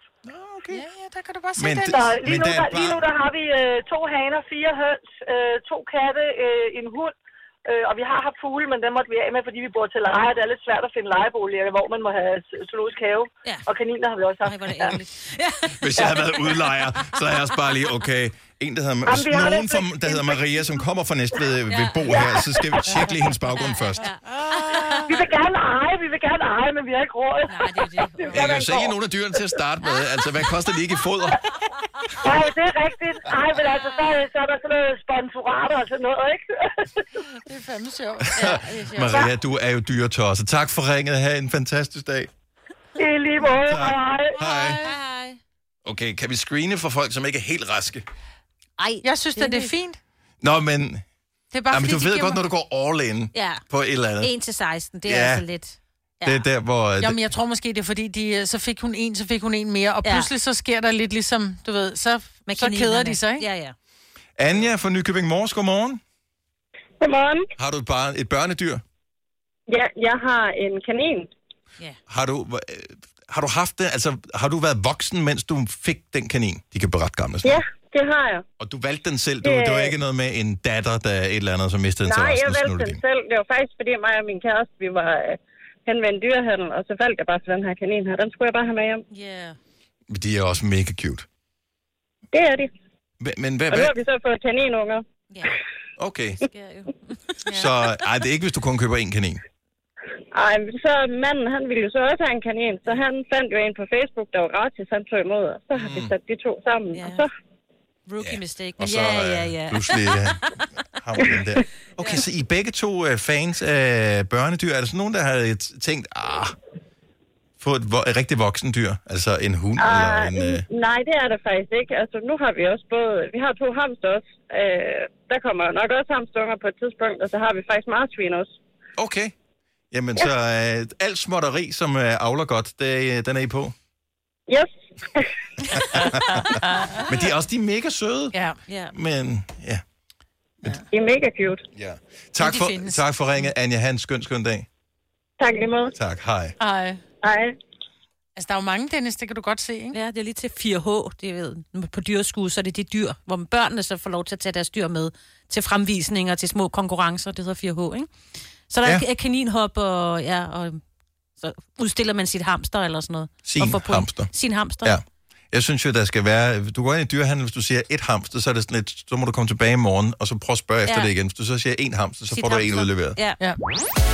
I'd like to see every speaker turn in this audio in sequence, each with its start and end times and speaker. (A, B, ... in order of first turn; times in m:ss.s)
0:00.2-0:00.8 A
0:00.7-0:02.2 B
0:01.6-0:03.0 A
0:01.9-0:07.1 C
0:07.7-0:15.0 C
0:14.4-0:15.8 D
0:15.8-0:24.1 A
0:16.0-0:16.2 C
0:16.4-0:17.8 D
0:19.1-0:20.4 C
0:21.7-0:22.5 D
0:23.6-0:25.2 D
0:24.4-0:25.1 B
0:25.0-0:29.0 C
0:27.5-0:28.7 D
0:28.3-0:31.6 A
0:32.2-0:37.1 C
0:37.3-0:39.3 B
0:38.3-0:42.3 A
0:43.0-0:44.4 C
0:43.6-0:44.8 A
0:44.4-0:45.0 B
0:44.8-0:45.4 D
0:45.8-0:48.0 A
0:48.8-0:49.7 D
0:49.0-0:50.0 B
0:50.4-0:51.0 A
0:51.5-0:52.4 B
0:51.7-0:54.3 A
0:53.3-0:53.6 D
0:54.2-0:56.4 D
0:55.0-0:55.5 A
0:56.2-0:57.2 A
0:57.0-1:03.5 B
1:00.0-1:00.3 D
1:02.5-1:03.8 D
1:04.4-1:06.0 A
1:07.0-1:07.5 E
1:07.6-1:08.8 A
1:09.7-1:11.3 E
1:12.1-1:17.6 A
1:17.4-1:18.4 E
1:18.6-1:23.0 A
1:19.4-1:19.9 E
1:22.0-1:29.0 E
1:29.1-1:29.6 D
1:30.1-1:31.3 A
1:32.3-1:32.7 E
1:33.2-1:33.9 A
1:33.7-1:35.0 E
1:35.3-1:35.6 D
1:36.0-1:36.4 A
1:36.4-1:37.4 D
1:37.5-1:39.4 A
1:40.3-1:47.3 E
1:45.8-1:46.1 A
1:46.9-1:47.2 D
1:48.1-1:50.7 D
1:48.2-1:50.4 A
1:51.0-1:56.6 A
1:52.0-1:52.2 D
1:57.6-2:00.6 A
1:59.8-2:08.6 E
2:09.0-2:09.3 A
2:09.9-2:13.7 A
2:14.5-2:15.3 E
2:15.8-2:18.4 A
2:16.4-2:17.0 B
2:18.3-2:18.6 B
2:18.7-2:18.9 D
2:18.9-2:19.8 A
2:20.9-2:21.6 E
2:21.8-2:24.7 A
2:22.4-2:23.0 B
2:25.4-2:25.9 E
2:26.0-2:26.6 A
2:26.6-2:27.0 B
2:27.2-2:27.6 E
2:28.4-2:30.0 B
2:29.9-2:38.1 D
2:38.7-2:40.8 D
2:41.4-2:44.9 D
2:43.5-2:44.3 A
2:44.8-2:53.2 A
2:50.9-2:51.1 D
2:52.3-2:53.4 D